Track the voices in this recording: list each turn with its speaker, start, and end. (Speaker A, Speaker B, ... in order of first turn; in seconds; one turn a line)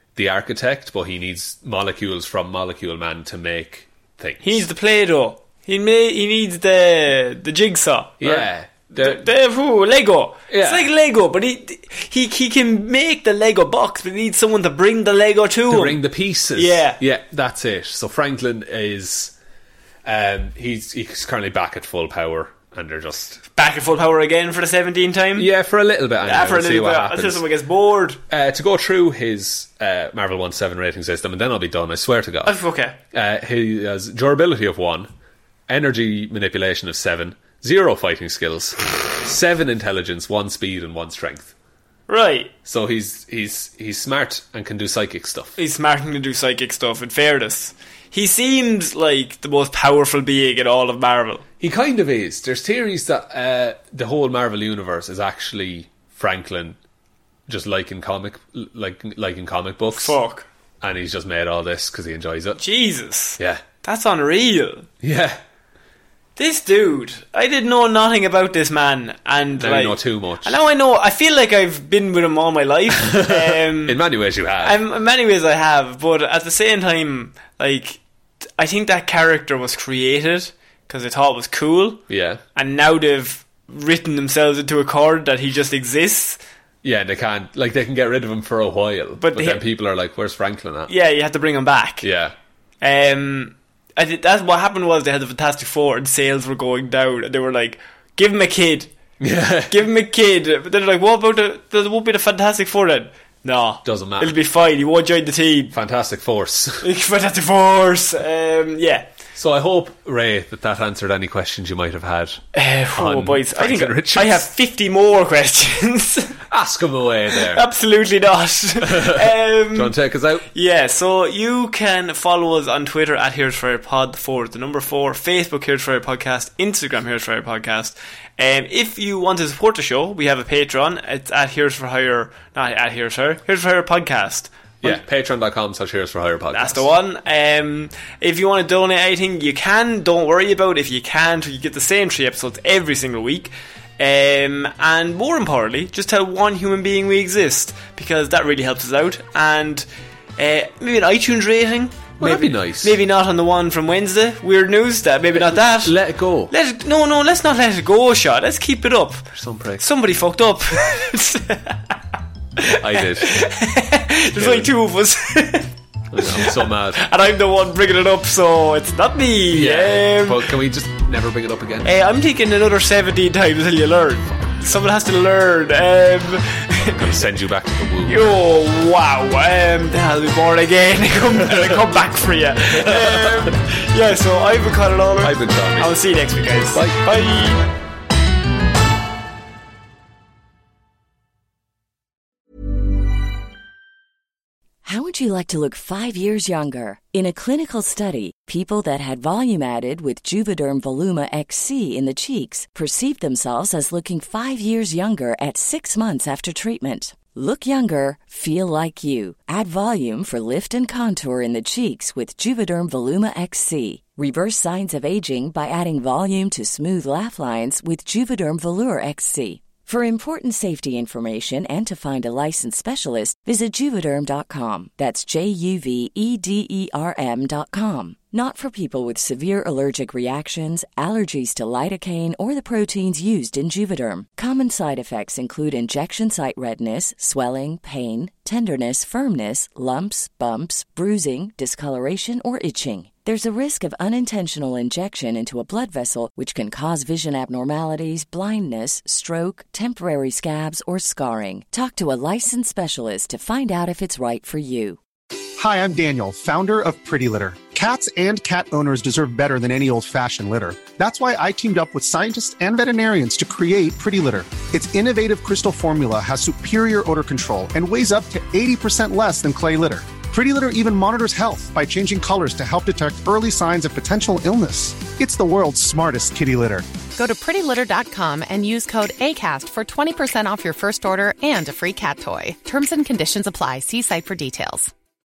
Speaker A: 0.1-4.6
Speaker B: 4.4-16.0
Speaker A: 8.2-9.2
Speaker A: 10.5-10.9
Speaker A: 15.7-19.3
Speaker B: 16.6-17.0
Speaker A: 20.0-23.4
Speaker B: 23.6-25.5
Speaker A: 25.4-27.4
Speaker B: 26.2-28.2
Speaker A: 28.3-32.5
Speaker B: 32.5-33.0
Speaker A: 33.1-35.1
Speaker A: 35.7-41.5
Speaker B: 42.1-42.5
Speaker A: 42.6-45.6
Speaker B: 45.6-51.4
Speaker A: 51.6-56.8
Speaker A: 57.5-60.2
Speaker B: 59.9-60.5
Speaker A: 60.8-62.6
Speaker B: 62.6-64.9
Speaker A: 65.0-65.4
Speaker B: 66.4-74.0
Speaker A: 69.6-70.6
Speaker A: 73.0-74.8
Speaker B: 74.6-78.0
Speaker B: 78.6-82.0
Speaker A: 82.1-82.4
Speaker B: 82.5-86.4
Speaker A: 86.8-90.9
Speaker B: 89.2-89.6
Speaker B: 90.9-92.0
Speaker A: 92.0-92.3
Speaker B: 92.8-98.9
Speaker A: 99.2-99.8
Speaker B: 99.7-105.7
Speaker A: 103.8-104.4
Speaker A: 105.7-106.8
Speaker B: 106.8-109.1
Speaker A: 109.3-112.4
Speaker B: 112.5-116.3
Speaker A: 112.9-114.5
Speaker A: 116.5-117.6
Speaker B: 117.3-119.9
Speaker A: 118.8-120.5
Speaker B: 120.5-135.0
Speaker A: 134.8-136.8
Speaker B: 136.5-155.9
Speaker A: 152.2-153.0
Speaker A: 155.3-156.5
Speaker B: 156.5-159.2
Speaker A: 159.3-159.8
Speaker B: 159.8-161.8
Speaker B: 162.6-165.7
Speaker A: 162.6-163.3
Speaker A: 164.4-164.7
Speaker A: 166.1-167.0
Speaker B: 166.4-170.5
Speaker A: 169.5-171.9
Speaker B: 171.8-177.0
Speaker A: 176.9-178.3
Speaker B: 178.1-187.7
Speaker A: 185.2-185.9
Speaker A: 186.7-187.0
Speaker C: 194.8-255.0
Speaker D: 255.6-276.9
Speaker E: 277.1-284.9